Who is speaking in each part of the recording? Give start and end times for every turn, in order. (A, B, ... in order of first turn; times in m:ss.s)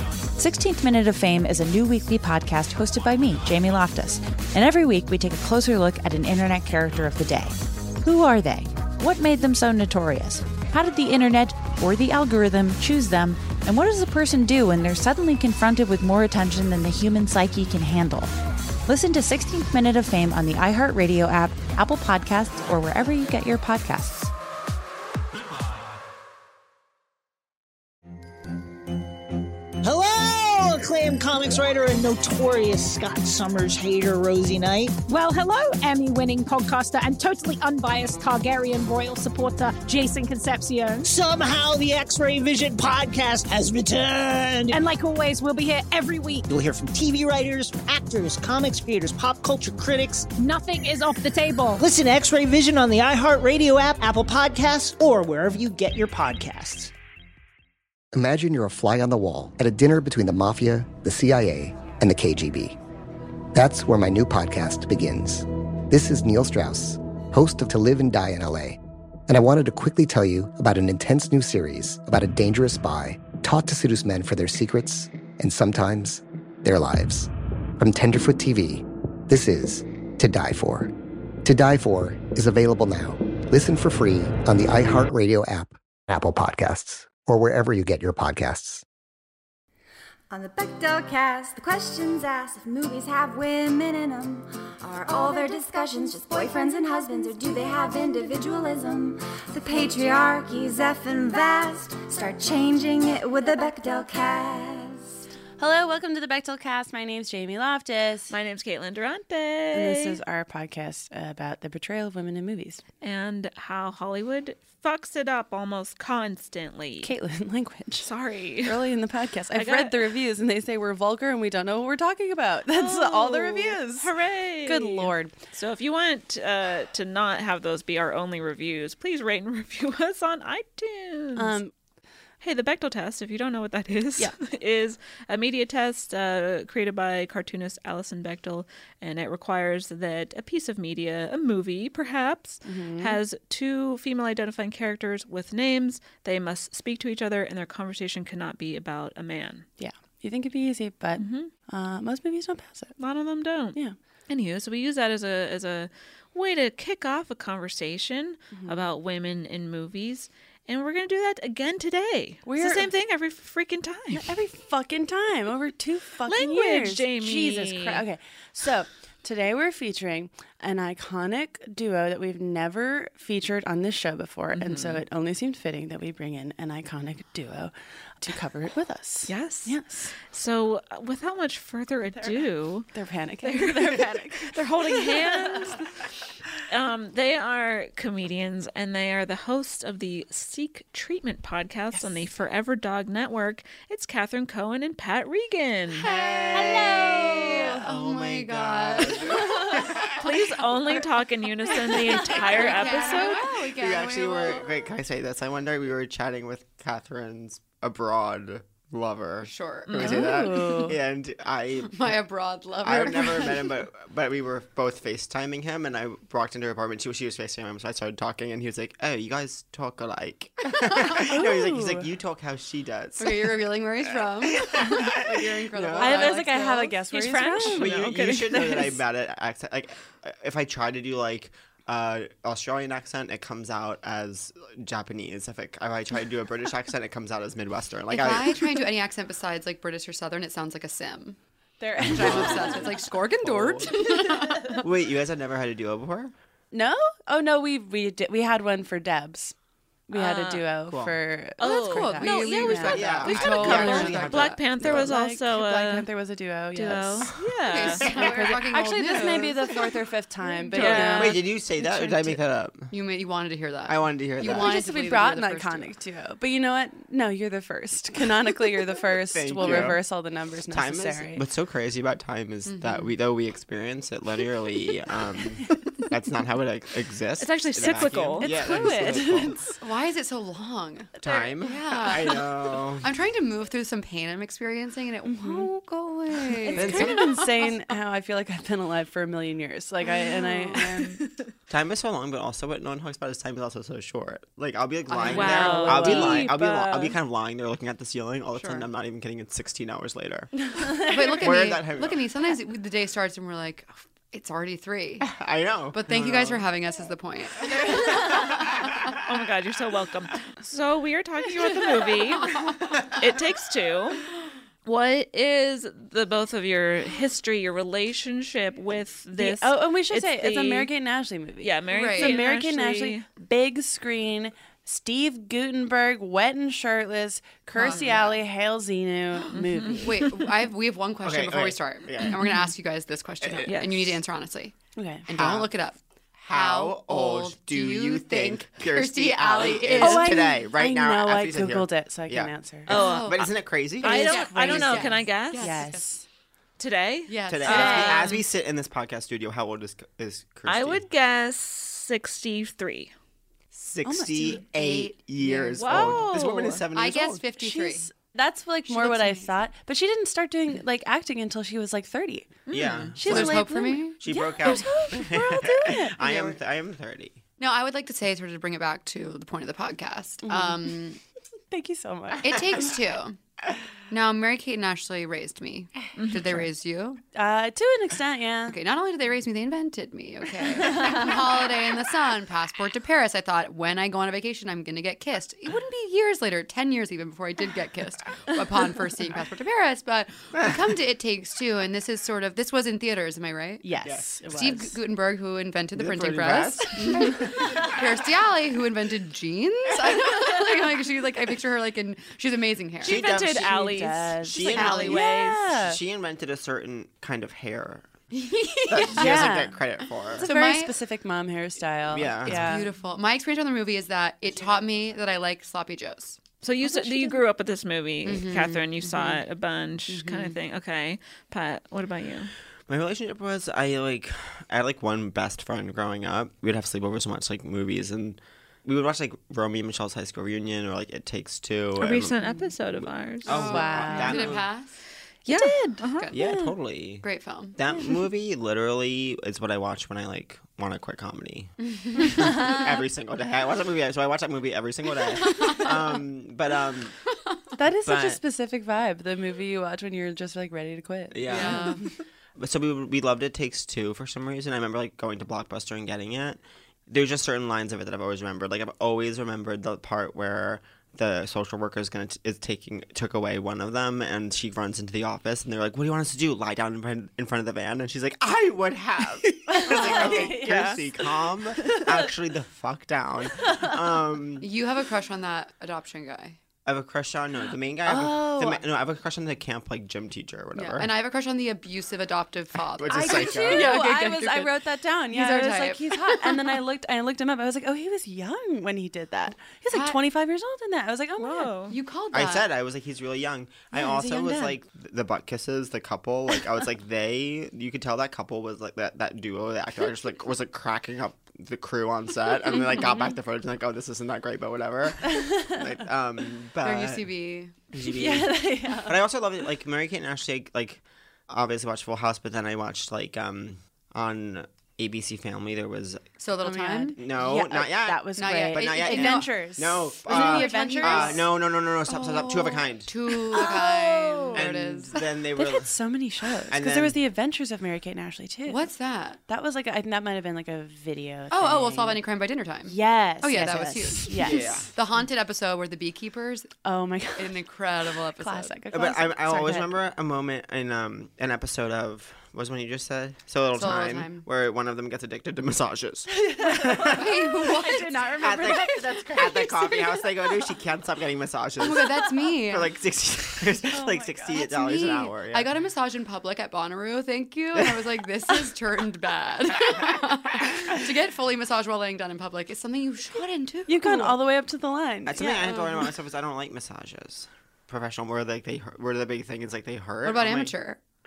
0:00.4-0:18.3 A
0:18.9-0:24.3 A
0:29.8-0:35.0 B
0:35.1-0:41.1 C
0:41.0-0:44.8 B
0:44.7-0:46.4 C
0:46.5-0:50.3 B
0:50.4-0:51.8 C
0:51.8-0:56.9 B
0:58.1-1:02.8 D
1:03.5-1:20.9 D
1:21.4-1:28.8 D
1:30.3-1:45.2 E
1:45.6-1:48.3 F
1:48.3-1:50.2 G
1:49.7-1:52.8 F
1:53.0-1:57.1 G
1:57.0-1:58.1 F
1:58.0-1:58.9 G
1:58.6-2:04.1 F
1:59.5-2:00.0 G
2:02.7-2:11.6 G
2:04.6-2:05.4 F
2:11.4-2:11.7 F
2:12.4-2:29.6 G
2:22.6-2:23.2 F
2:29.8-2:32.9 F
2:31.2-2:31.5 G
2:33.0-2:33.8 G
2:34.3-2:44.3 G
2:38.5-2:38.8 F
2:42.5-2:42.9 F
2:44.1-3:00.1 F
2:46.3-2:48.0 G
2:54.5-2:55.0 G
2:59.3-3:02.9 G
3:02.9-3:05.8 F
3:03.4-3:05.9 G
3:06.7-3:16.1 G
3:16.0-3:20.3 H
3:16.1-3:20.2 I
3:20.2-3:23.6 G
3:21.7-3:24.7 H
3:23.7-3:32.2 I
3:29.4-3:30.3 H
3:29.9-3:31.0 F
3:31.8-3:33.7 H
3:32.8-3:46.4 I
3:41.3-3:42.1 F
3:43.2-3:47.0 H
3:46.0-3:48.0 F
3:47.1-3:48.9 G
3:47.8-3:58.9 I
3:48.5-3:49.0 F
3:58.1-4:01.4 H
4:01.8-4:02.9 F
4:02.0-4:04.8 H
4:02.0-4:04.1 I
4:04.0-4:04.8 F
4:04.8-4:06.3 I
4:06.7-4:09.6 F
4:10.1-4:14.3 F
4:10.1-4:10.7 G
4:10.9-4:11.2 I
4:11.6-4:16.1 G
4:11.6-4:14.6 H
4:12.9-4:15.1 I
4:14.8-4:17.3 F
4:16.8-4:18.1 G
4:17.7-4:19.8 H
4:18.0-4:21.4 F
4:18.0-4:18.6 I
4:20.7-4:22.4 G
4:20.8-4:22.9 I
4:22.9-4:25.9 H
4:23.9-4:24.8 I
4:24.4-4:31.4 F
4:29.3-4:30.0 I
4:30.7-4:39.7 I
4:32.7-4:33.1 H
4:37.4-4:38.5 G
4:38.4-4:39.8 F
4:39.8-4:47.7 H
4:41.2-4:43.1 I
4:45.3-4:45.7 F
4:46.7-4:51.2 F
4:46.7-4:47.3 I
4:50.1-4:51.0 H
4:51.2-4:51.4 G
4:51.7-5:02.3 I
4:55.1-4:56.4 H
4:55.3-4:56.5 F
4:55.3-4:57.2 G
4:58.5-4:58.9 H
5:00.7-5:01.4 F
5:01.1-5:05.3 H
5:05.2-5:06.7 I
5:05.9-5:08.8 H
5:07.7-5:09.1 I
5:09.2-5:12.6 G
5:13.1-5:14.2 G
5:14.8-5:20.9 G
5:19.3-5:30.2 F
5:21.6-5:23.3 G
5:21.9-5:22.4 H
5:27.8-5:28.4 H
5:29.5-5:30.5 G
5:30.0-5:34.8 H
5:31.2-5:32.6 I
5:33.4-5:34.1 I
5:35.0-5:35.3 F
5:35.3-5:36.0 H
5:35.4-5:35.8 I
5:36.4-5:44.3 I
5:36.5-5:40.5 H
5:40.0-5:42.9 F
5:42.9-5:43.5 G
5:42.9-5:46.2 H
5:44.0-5:46.2 F
5:44.0-5:45.8 G
5:46.8-5:48.4 G
5:47.3-5:48.2 H
5:47.5-5:51.0 I
5:47.7-5:48.2 F
5:50.7-5:53.1 G
5:53.7-5:57.4 I
5:54.0-5:54.6 F
5:54.4-5:56.2 H
5:55.8-5:56.8 G
5:56.9-5:58.1 H
5:57.6-6:02.6 F
5:58.9-5:59.5 H
6:02.7-6:03.1 G
6:02.7-6:07.4 I
6:03.2-6:06.2 F
6:03.2-6:04.7 H
6:06.2-6:06.6 H
6:07.6-6:11.2 H
6:10.4-6:10.9 F
6:11.7-6:12.9 F
6:12.4-6:13.4 H
6:12.6-6:12.9 I
6:14.1-6:17.2 H
6:16.2-6:16.5 G
6:17.4-6:18.8 F
6:18.7-6:33.9 H
6:30.6-6:30.8 I
6:33.8-6:35.0 F
6:34.0-6:34.4 I
6:34.4-6:43.2 H
6:35.9-6:38.0 I
6:37.0-6:37.4 F
6:43.0-6:43.8 I
6:43.0-6:45.7 G
6:43.5-6:46.0 F
6:44.4-6:48.2 I
6:44.6-6:45.3 H
6:48.3-6:49.6 H
6:48.9-6:50.5 I
6:49.1-6:49.8 F
6:50.4-6:52.9 F
6:50.4-6:51.0 H
6:52.1-6:52.9 I
6:52.4-6:57.4 H
6:56.6-7:02.5 G
6:58.2-6:59.4 H
7:00.1-7:00.6 H
7:02.9-7:12.4 I
7:12.0-7:14.3 G
7:13.4-7:14.7 I
7:13.5-7:15.0 H
7:13.6-7:14.5 F
7:15.5-7:16.3 G
7:15.6-7:16.7 F
7:16.0-7:16.6 H
7:16.3-7:17.2 I
7:17.2-7:17.8 H
7:17.8-7:27.2 I
7:21.8-7:22.8 H
7:25.4-7:26.2 H
7:27.8-7:32.0 F
7:28.0-7:28.4 I
7:31.3-7:32.0 I
7:31.5-7:32.0 H
7:32.6-7:54.7 I
7:49.7-7:52.3 F
7:54.6-7:56.6 H
7:56.8-8:01.1 I
7:58.1-7:58.8 F
8:00.8-8:04.8 H
8:03.0-8:04.2 I
8:03.1-8:11.7 F
8:05.3-8:06.8 H
8:09.9-8:10.2 H
8:11.4-8:12.0 G
8:11.9-8:12.7 H
8:12.3-8:27.3 I
8:13.9-8:14.8 F
8:26.8-8:27.9 H
8:27.9-8:36.3 I
8:28.1-8:29.2 F
8:36.4-8:37.2 H
8:36.6-8:41.4 F
8:37.2-8:43.7 I
8:38.4-8:45.3 H
8:43.6-8:44.6 F
8:44.5-8:45.9 I
8:45.6-8:48.8 F
8:46.7-8:47.2 I
8:48.7-8:49.4 H
8:49.5-8:52.2 F
8:51.5-8:56.7 H
8:52.8-8:54.9 F
8:54.4-8:54.9 I
8:56.8-8:59.9 F
8:57.4-8:58.8 H
8:58.9-9:07.6 I
9:03.7-9:04.4 H
9:06.4-9:10.7 F
9:07.1-9:08.8 H
9:08.4-9:15.7 I
9:11.8-9:12.9 H
9:13.9-9:14.6 F
9:14.5-9:24.4 H
9:17.8-9:18.2 I
9:23.9-9:25.8 F
9:25.3-9:30.7 I
9:30.2-9:31.0 H